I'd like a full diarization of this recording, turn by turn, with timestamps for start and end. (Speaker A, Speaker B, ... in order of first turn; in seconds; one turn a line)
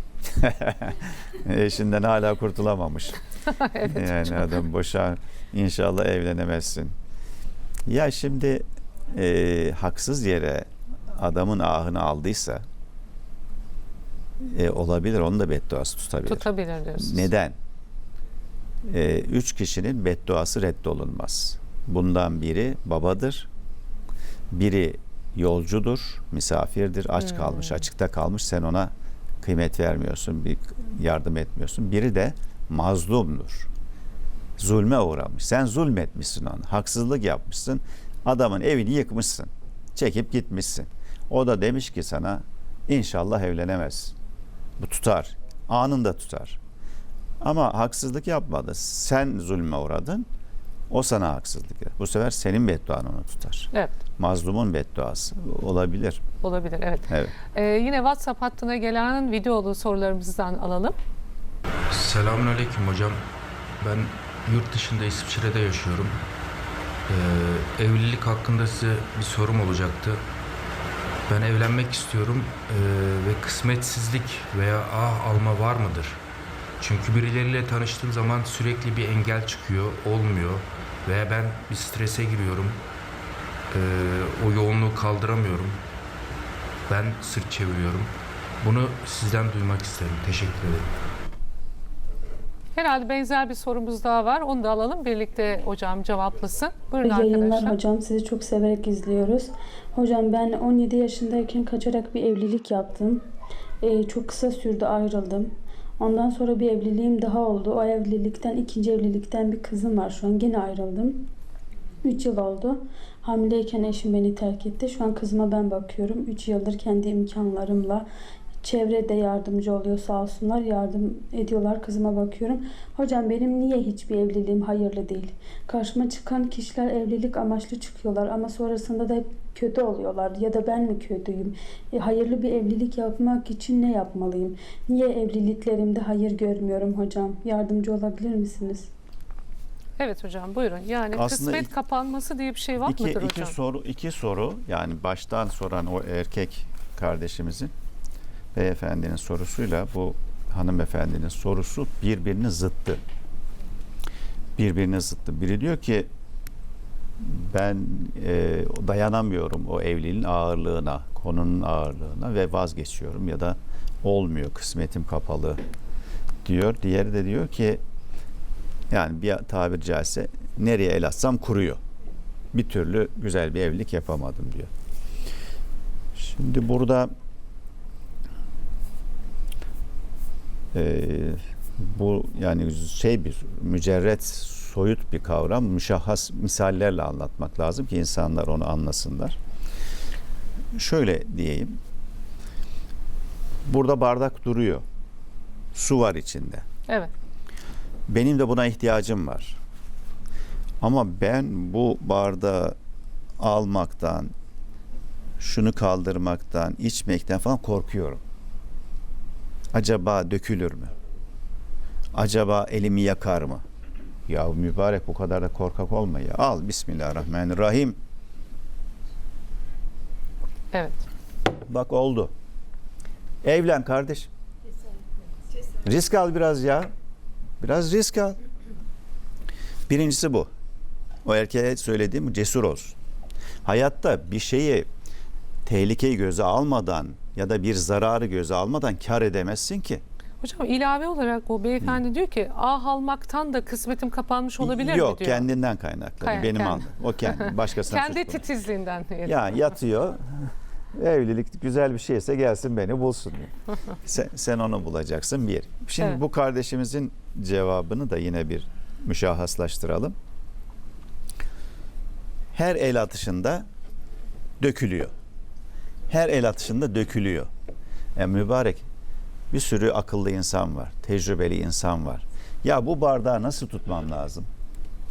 Speaker A: 0.4-3.2
Speaker B: 3.5-4.5
Speaker A: 3.8-6.9
Speaker A: 7.8-12.6
Speaker A: 14.4-17.6
Speaker B: 16.2-17.3
Speaker A: 18.9-23.5
Speaker A: 24.5-33.7
Speaker A: 34.6-44.1
Speaker A: 44.8-46.6
Speaker A: 47.4-50.3
Speaker A: 50.9-56.2
Speaker B: 56.4-61.0
Speaker C: 61.9-63.2
Speaker C: 63.8-66.2
Speaker C: 67.1-70.2
Speaker C: 71.3-76.2
Speaker C: 76.8-82.8
Speaker C: 83.7-85.8
Speaker C: 86.9-90.9
Speaker B: 92.7-97.8
Speaker D: 97.0-103.2
Speaker D: 103.8-111.3
Speaker D: 112.0-118.0
Speaker D: 118.6-138.9
Speaker B: 140.0-143.6
Speaker A: 141.1-141.7
Speaker A: 142.8-147.7
Speaker A: 148.5-153.0
Speaker A: 154.6-156.1
Speaker A: 157.2-165.6
Speaker A: 166.4-167.8
Speaker A: 168.9-171.8
Speaker A: 172.5-174.7
Speaker A: 176.1-177.1
Speaker A: 180.7-189.4
Speaker A: 190.7-191.7
Speaker A: 193.7-194.8
Speaker A: 195.7-196.6
Speaker B: 196.9-197.1
Speaker A: 198.1-199.6
Speaker A: 200.8-202.8
Speaker A: 203.4-204.3
Speaker A: 205.4-208.2
Speaker A: 209.7-210.9
Speaker A: 212.1-213.6
Speaker A: 214.3-218.0
Speaker B: 220.7-221.0
Speaker A: 221.7-222.3
Speaker A: 223.4-224.3
Speaker A: 225.8-226.9
Speaker A: 227.6-228.4
Speaker A: 229.9-230.5
Speaker A: 231.2-232.9
Speaker A: 233.6-234.9
Speaker A: 235.6-240.0
Speaker B: 240.4-245.5
Speaker A: 244.6-248.4
Speaker B: 246.2-246.9
Speaker B: 247.4-249.6
Speaker A: 249.2-260.1
Speaker A: 262.5-263.7
Speaker A: 264.6-265.1
Speaker A: 266.1-267.5
Speaker A: 268.1-268.9
Speaker A: 269.5-274.5